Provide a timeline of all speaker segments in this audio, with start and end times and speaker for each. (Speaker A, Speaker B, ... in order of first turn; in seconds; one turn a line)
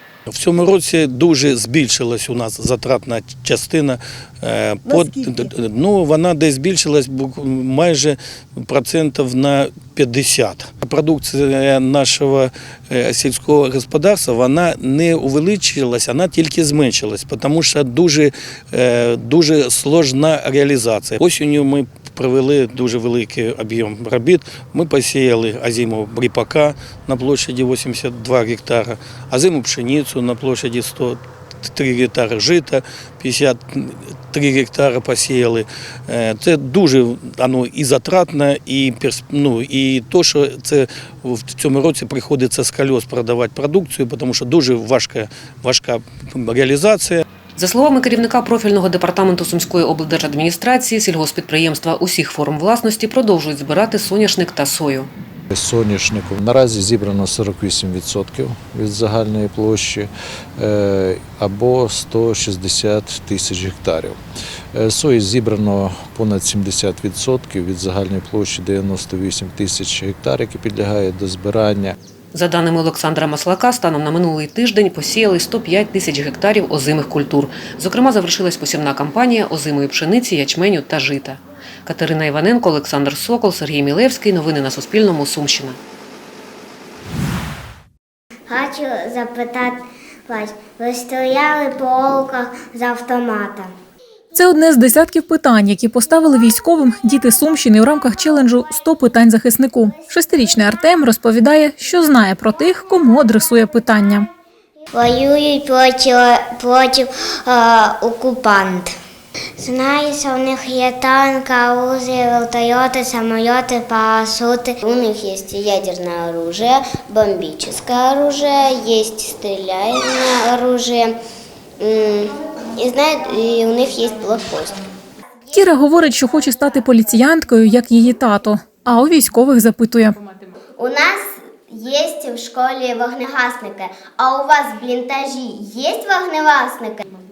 Speaker A: 0.3-47.2
Speaker B: 47.6-55.1
Speaker C: 55.5-64.2
Speaker C: 64.8-72.0
Speaker B: 72.3-85.8
Speaker D: 88.5-93.7
Speaker E: 94.3-104.3
Speaker D: 104.9-108.9
Speaker D: 109.6-121.2
Speaker D: 121.8-124.8
Speaker E: 125.5-130.2
Speaker D: 130.8-137.1